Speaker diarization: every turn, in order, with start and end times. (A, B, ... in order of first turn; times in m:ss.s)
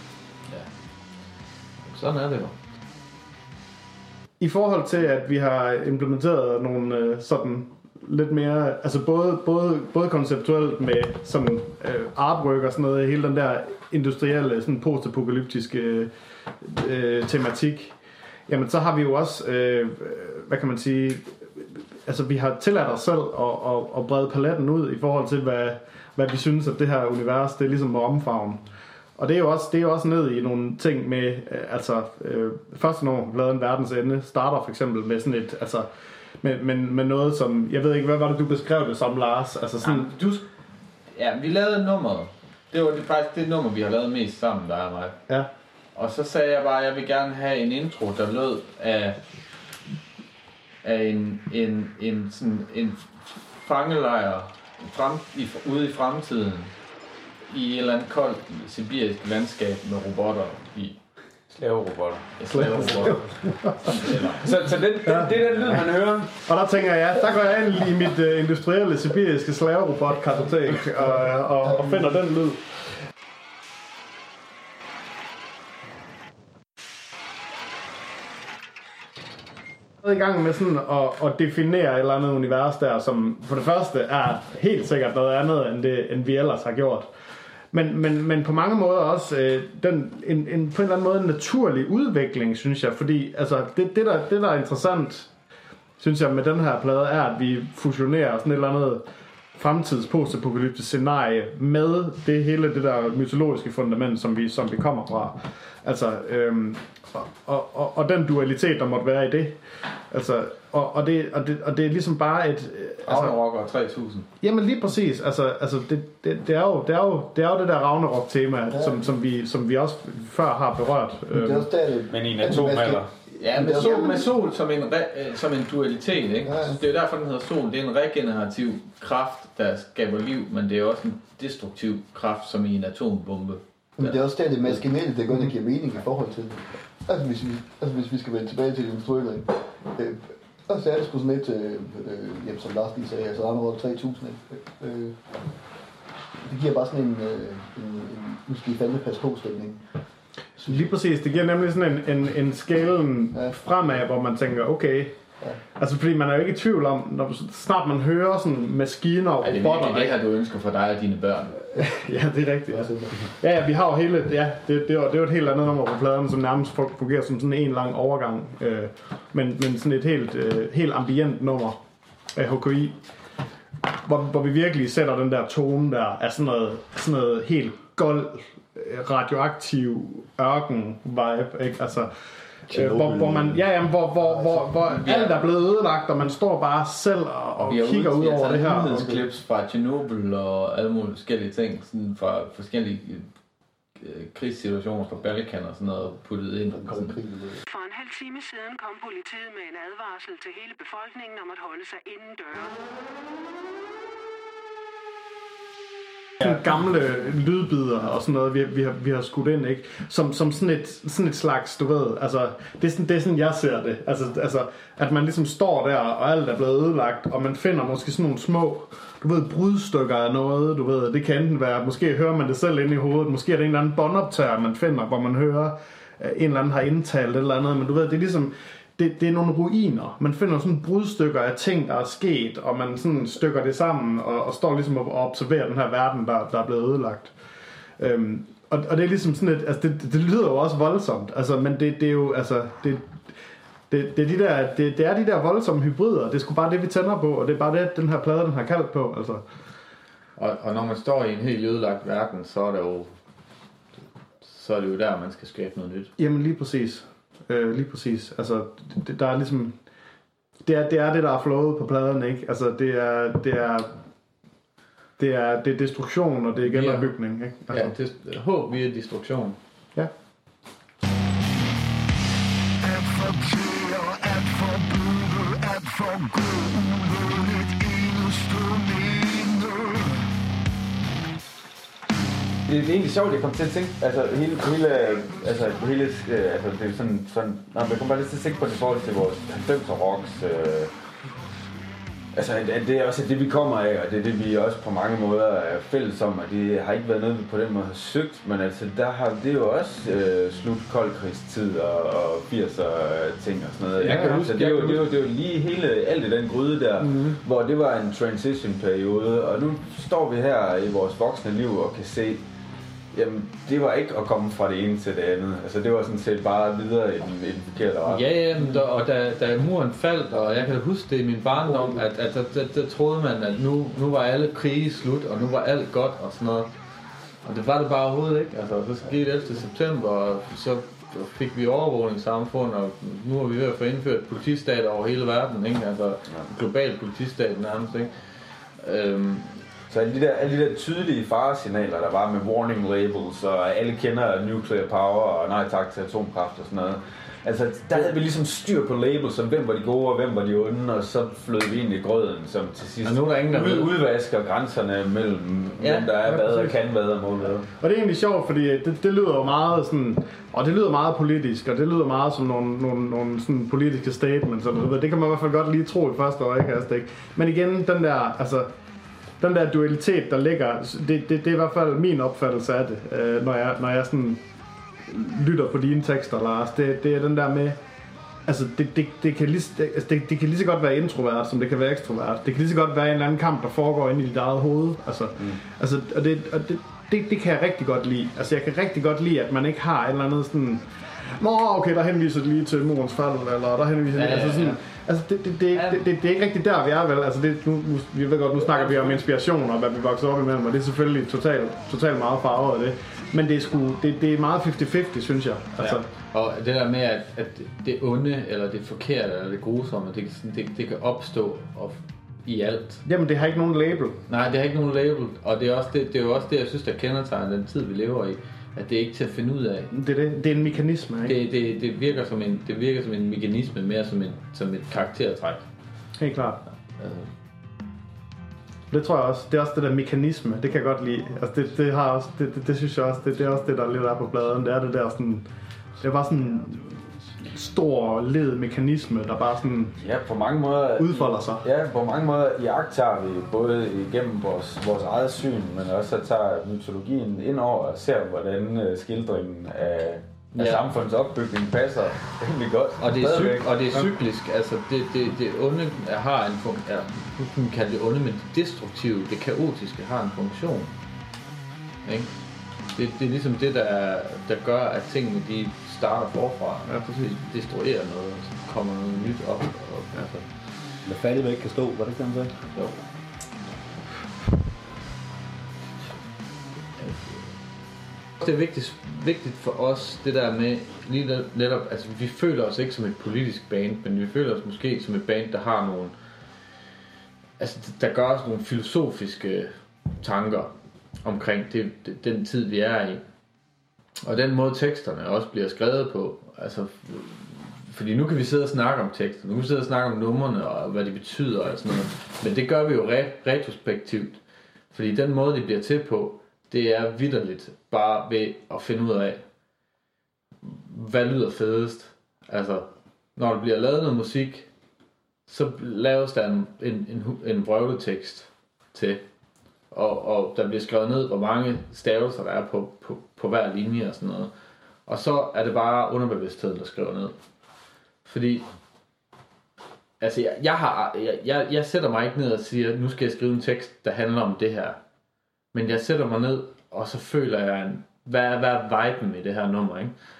0:01.8-0:02.6 A
0:04.4-0:18.0 B
0:18.5-0:28.6 B
0:29.2-0:35.9 B
0:36.4-0:40.1 B
0:39.8-0:40.5 A
0:41.1-0:45.2 A
0:45.9-0:49.2 A
0:50.8-0:56.7 A
0:57.5-1:01.0 A
1:01.5-1:03.1 C
1:02.4-1:04.2 A
1:02.6-1:04.1 B
1:03.9-1:06.3 C
1:05.0-1:05.8 B
1:06.3-1:12.9 B
1:20.0-1:27.1 B
1:27.7-1:35.3 B
1:36.0-1:39.0 B
1:39.5-1:53.4 B
1:53.0-1:54.3 A
1:54.4-2:01.7 B
2:01.3-2:04.3 D
2:02.1-2:03.1 C
2:03.3-2:14.2 A
2:06.4-2:06.8 D
2:14.0-2:25.2 D
2:26.4-2:29.8 D
2:30.6-2:40.2 B
2:39.4-2:41.6 A
2:41.7-2:51.8 B
2:52.3-2:53.0 B
2:53.8-3:09.1 B
3:02.7-3:03.6 D
3:04.2-3:04.7 D
3:05.0-3:05.4 A
3:07.6-3:13.3 A
3:08.6-3:09.2 D
3:14.0-3:17.2 A
3:16.7-3:17.6 D
3:17.7-3:22.8 E
3:26.4-3:57.3 B
3:58.0-4:03.2 B
4:03.9-4:09.4 B
4:10.4-4:13.1 A
4:14.4-4:16.1 A
4:16.2-4:19.8 B
4:20.6-4:23.9 B
4:25.2-4:27.9 B
4:26.7-4:27.1 A
4:27.7-4:29.6 A
4:32.8-4:40.3 F
4:42.7-4:50.9 C
4:52.3-5:12.4 C
5:04.0-5:05.1 A
5:07.0-5:07.3 B
5:13.1-5:18.2 C
5:18.0-5:26.7 A
5:27.4-5:39.6 A
5:39.9-5:57.7 C
5:53.0-5:54.0 A
5:55.8-5:56.3 A
5:56.4-5:56.7 B
5:57.7-6:08.7 B
6:09.4-6:14.4 B
6:15.0-6:17.8 B
6:18.4-6:46.1 B
6:34.1-6:34.8 A
6:35.7-6:36.0 A
6:38.7-6:39.2 A
6:45.8-6:53.0 A
6:53.0-6:54.2 B
6:54.3-6:59.9 A
6:59.9-7:01.4 B
7:01.2-7:05.6 A
7:06.2-7:06.6 B
7:07.0-7:07.3 A
7:08.9-7:15.5 B
7:16.0-7:20.0 B
7:20.0-7:34.0 C
7:21.0-7:21.6 B
7:30.5-7:30.8 A
7:33.0-7:41.0 A
7:42.0-7:42.3 A
7:42.9-7:50.5 A
7:46.9-7:47.3 B
7:51.0-7:52.6 D
7:57.0-7:57.6 A
7:58.4-8:06.1 A
8:07.6-8:10.7 A
8:11.2-8:13.2 A
8:14.2-8:24.4 A
8:24.9-8:29.4 A
8:30.6-8:34.7 A
8:35.5-8:39.2 A
8:39.9-8:44.5 A
8:45.1-8:47.4 A
8:48.2-8:48.6 A
8:50.2-8:55.0 A
8:55.7-9:00.1 A